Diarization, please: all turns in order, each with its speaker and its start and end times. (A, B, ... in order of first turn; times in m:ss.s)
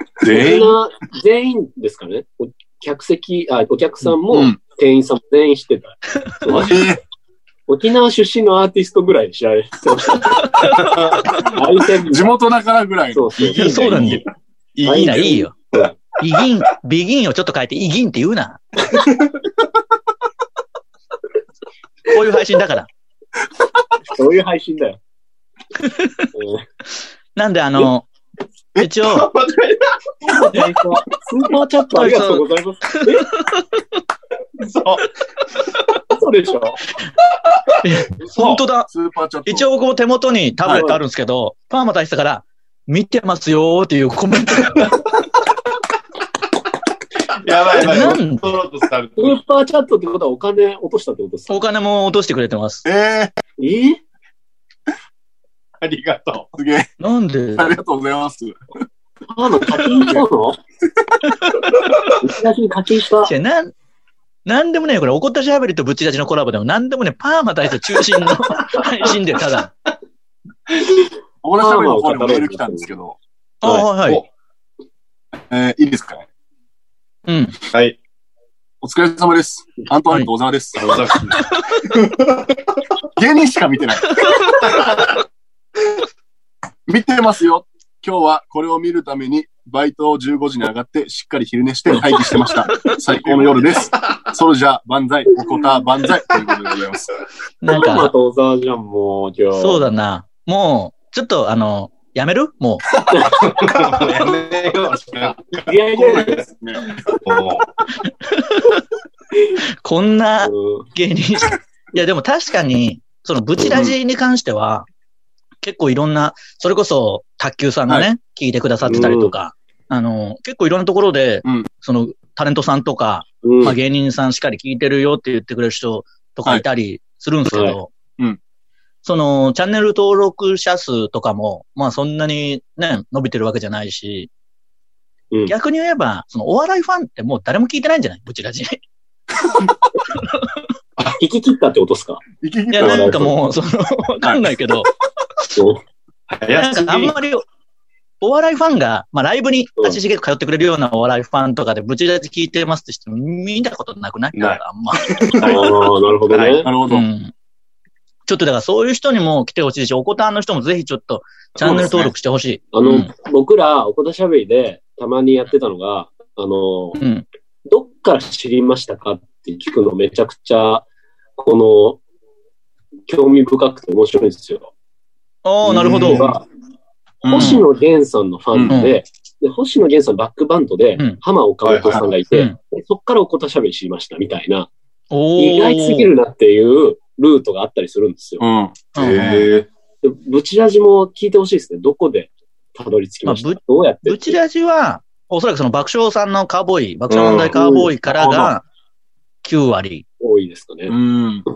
0:00.2-0:00.7 A
0:00.2-0:06.9 B
0:04.3-0:04.6 C
0:06.5-0:07.0 C
0:07.7-0:10.7 B
0:10.6-0:10.9 D
0:10.7-0:11.3 A
0:11.3-0:12.4 B
0:12.0-0:13.4 C
0:13.1-0:14.2 B
0:13.4-0:14.2 A
0:13.5-0:14.2 D
0:14.7-0:15.4 A
0:14.8-0:16.0 B
0:14.9-0:15.5 D
0:16.2-0:18.6 D
0:22.1-0:22.9 D
0:24.1-0:25.0 B
0:25.8-0:26.3 D
0:26.3-0:26.6 B
0:27.3-0:28.1 D
0:28.8-0:29.3 D
0:29.0-0:30.1 A
0:30.2-0:33.3 B
0:31.9-0:33.8 D
0:34.6-0:35.0 A
0:36.1-0:36.9 B
0:37.8-0:38.9 D
0:38.3-0:38.6 A
0:38.9-0:39.6 C
0:39.4-0:45.0 D
0:40.7-0:41.0 B
0:47.3-0:49.4 A
0:47.8-0:48.6 D
0:49.2-0:51.6 B
0:51.5-0:52.8 D
0:52.8-0:53.3 C
0:53.6-0:54.0 B
0:55.8-0:56.5 A
0:56.5-0:56.9 C
0:57.0-0:57.7 D
0:57.6-0:58.5 C
0:59.3-1:00.6 B
1:01.4-1:02.0 D
1:02.2-1:03.3 B
1:03.2-1:03.7 D
1:04.4-1:09.7 D
1:11.4-1:13.2 C
1:11.6-1:12.9 B
1:13.6-1:14.2 D
1:15.5-1:16.3 C
1:17.3-1:17.6 D
1:18.8-1:21.0 C
1:20.8-1:21.1 B
1:20.8-1:21.4 A
1:23.2-1:24.3 C
1:24.2-1:24.6 D
1:26.9-1:37.1 C
1:33.0-1:34.2 A
1:37.6-1:38.1 D
1:37.7-1:39.8 B
1:39.5-1:42.8 D
1:43.2-1:45.6 A
1:45.6-1:46.4 B
1:45.9-1:46.8 C
1:47.2-1:47.7 A
1:48.1-1:48.8 D
1:49.8-1:54.9 D
1:50.4-1:50.9 B
1:53.7-1:54.0 C
1:55.6-2:07.9 D
1:58.8-1:59.3 B
2:03.4-2:03.8 B
2:07.5-2:07.8 B
2:09.0-2:14.3 D
2:15.5-2:18.8 D
2:20.1-2:20.5 D
2:21.0-2:22.2 B
2:22.4-2:23.3 C
2:22.7-2:24.9 D
2:22.8-2:23.3 B
2:25.6-2:25.8 B
2:26.3-2:27.1 A
2:26.5-2:27.4 D
2:28.2-2:35.6 D
2:34.3-2:34.6 A
2:35.1-2:36.7 A
2:35.4-2:36.7 B
2:36.6-2:37.1 C
2:36.8-2:37.3 D
2:38.3-2:43.1 D
2:41.6-2:42.1 A
2:42.7-2:47.0 B
2:47.0-2:47.2 D
2:47.7-2:52.0 B
2:53.1-2:54.7 B
2:55.4-2:56.3 D
2:55.7-2:56.4 B
2:55.7-2:56.3 C
2:57.2-2:57.6 C
2:57.2-3:04.7 B
2:57.3-2:57.6 D
2:58.5-2:58.8 C
2:58.7-2:59.0 D
3:01.6-3:02.1 A
3:02.3-3:02.6 D
3:05.1-3:06.1 D
3:05.4-3:08.4 B
3:08.4-3:08.8 C
3:08.9-3:09.5 D
3:09.0-3:09.7 A
3:10.0-3:14.4 B
3:13.2-3:18.6 D
3:17.1-3:17.6 A
3:17.6-3:17.9 B
3:18.0-3:18.5 C
3:19.4-3:20.0 D
3:20.2-3:20.9 B
3:20.9-3:21.4 C